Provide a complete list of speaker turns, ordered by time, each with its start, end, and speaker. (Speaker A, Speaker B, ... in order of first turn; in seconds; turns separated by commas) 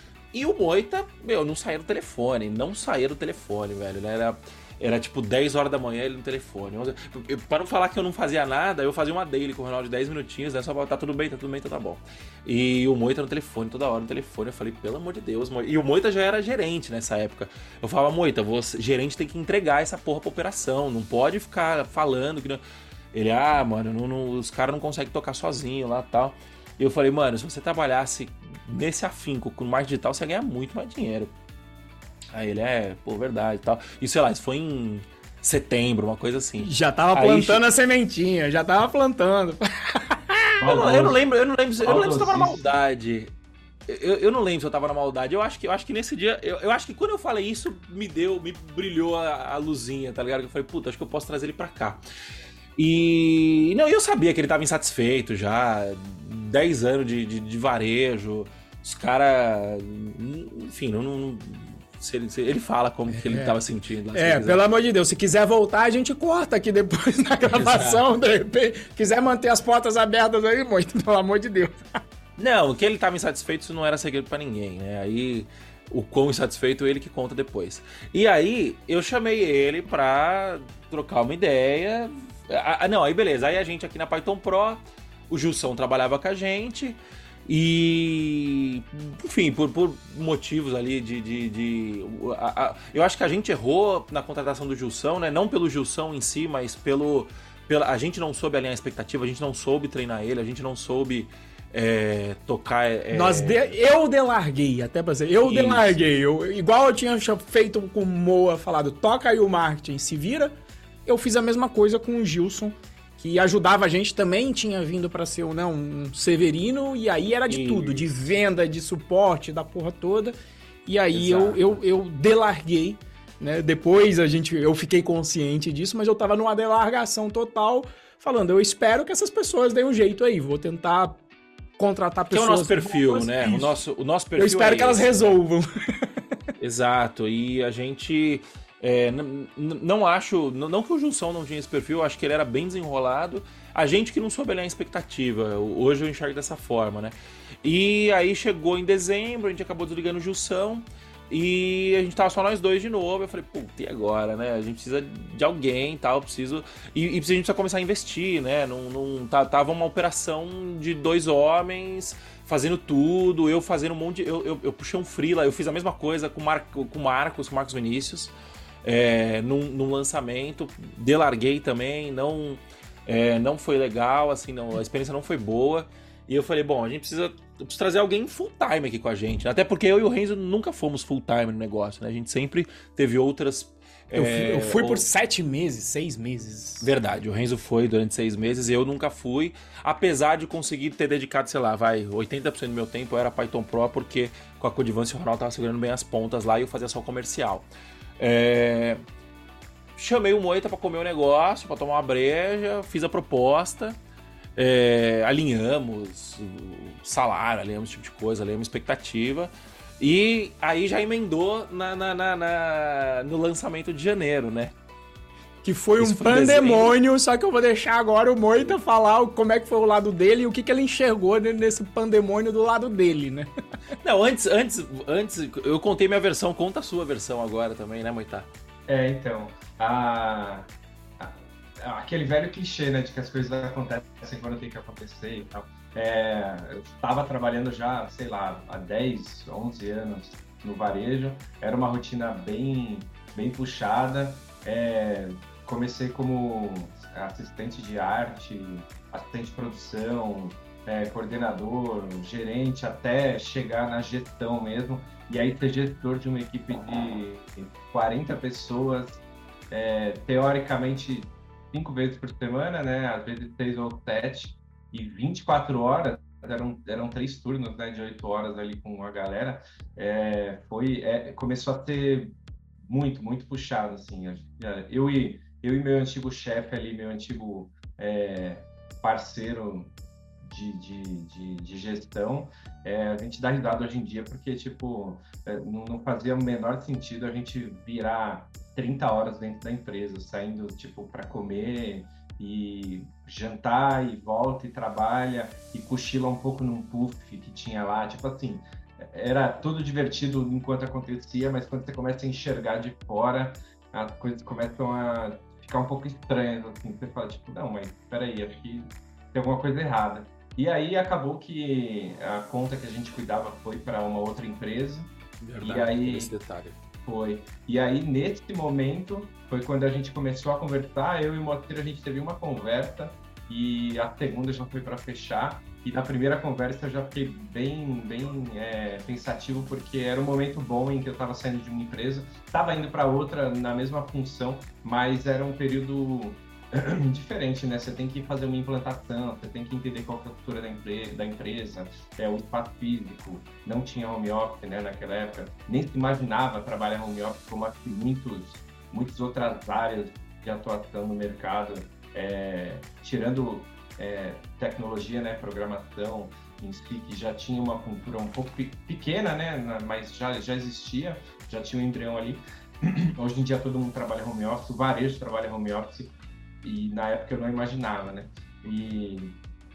Speaker A: 0.3-22.6, Speaker A: 23.1-31.3, Speaker A: 32.3-37.6, Speaker B: 36.6-40.6, Speaker C: 40.6-41.2, Speaker A: 40.6-43.3, Speaker C: 41.8-42.8, Speaker A: 43.9-52.0, Speaker A: 52.8-64.6, Speaker B: 63.1-63.5, Speaker B: 64.1-72.0, Speaker A: 67.5-68.0, Speaker A: 72.4-103.7, Speaker B: 103.1-110.5, Speaker A: 105.4-106.0, Speaker B: 111.0-131.2, Speaker A: 117.5-118.1, Speaker A: 121.1-121.8, Speaker B: 131.8-133.7, Speaker A: 132.3-135.4, Speaker B: 134.4-136.1, Speaker A: 136.6-185.0, Speaker B: 184.1-186.9, Speaker A: 186.8-197.7, Speaker A: 198.2-199.0, Speaker A: 200.0-204.0, Speaker A: 204.6-214.7, Speaker B: 215.6-223.5, Speaker A: 216.0-216.9, Speaker A: 224.0-228.5, Speaker C: 228.9-316.3, Speaker A: 315.4-316.8, Speaker C: 317.0-369.4